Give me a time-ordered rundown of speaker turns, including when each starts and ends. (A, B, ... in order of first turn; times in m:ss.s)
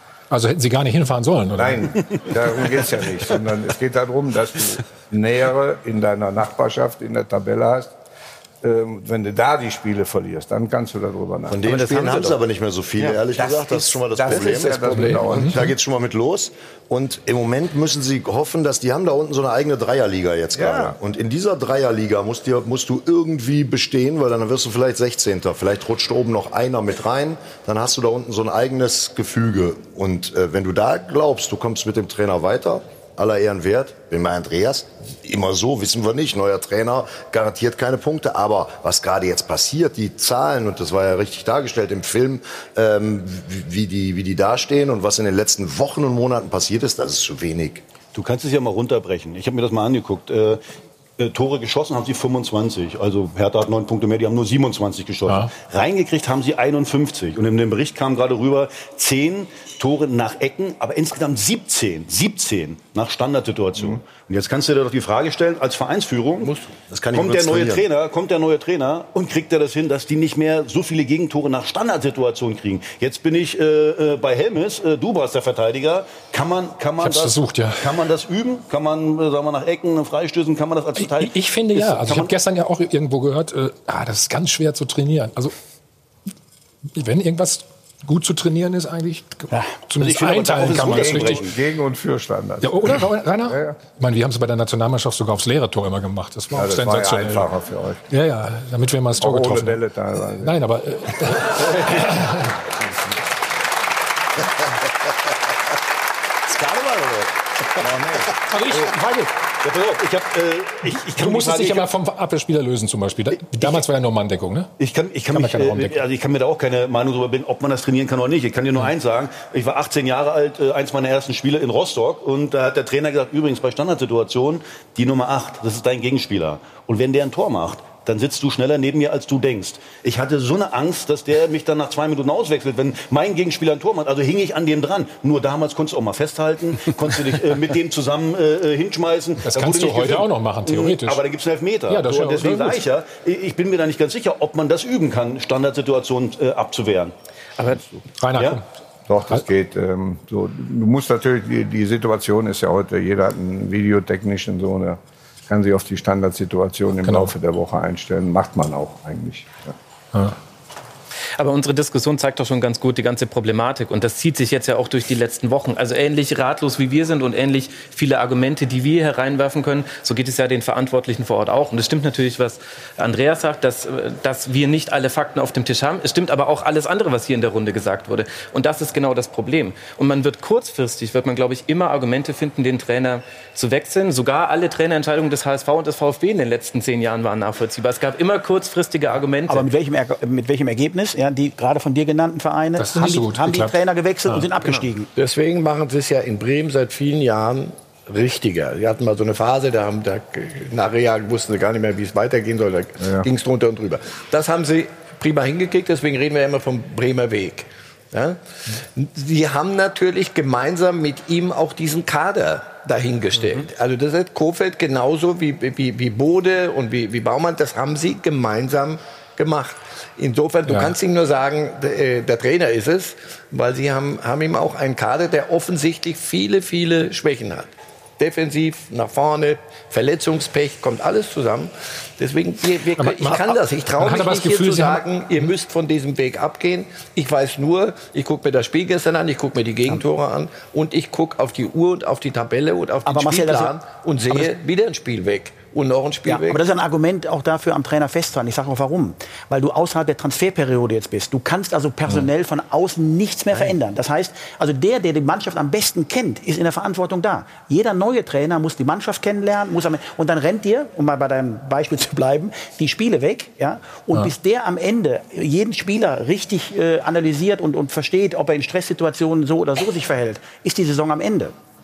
0:00.3-0:02.0 A
0:01.6-0:07.9 B
0:08.6-0:12.3 B
0:11.5-0:14.9 C
0:13.0-0:15.6 B
0:14.3-0:15.5 D
0:14.9-0:15.7 A
0:15.5-0:47.8 C
0:20.5-0:21.0 B
0:48.1-0:50.6 E
0:51.2-1:06.5 E
0:55.2-0:55.5 A
1:06.4-1:06.8 D
1:06.9-1:07.8 C
1:07.1-1:22.3 E
1:17.0-1:18.0 A
1:21.0-1:25.5 A
1:26.9-1:31.5 A
1:30.0-1:31.5 E
1:30.8-1:33.8 B
1:32.6-1:37.5 A
1:36.5-1:38.0 B
1:38.1-1:39.8 A
1:39.2-1:40.6 B
1:40.4-1:42.6 A
1:46.5-1:47.3 C
1:48.4-1:49.3 A
1:49.6-1:51.9 E
1:51.1-1:54.7 A
1:53.6-1:53.8 E
1:54.8-2:27.1 E
1:55.3-1:56.0 A
2:19.4-2:21.3 A
2:21.9-2:22.8 A
2:27.6-2:28.6 A
2:27.6-2:28.0 B
2:29.1-2:39.8 B
2:37.0-2:37.3 A
2:41.4-3:09.7 F
3:09.5-3:15.1 G
3:12.8-3:13.8 A
3:15.2-4:06.6 D
3:23.0-3:23.3 B
3:40.7-3:41.0 A
3:53.0-3:55.5 A
4:03.0-4:03.8 G
4:06.3-4:31.5 G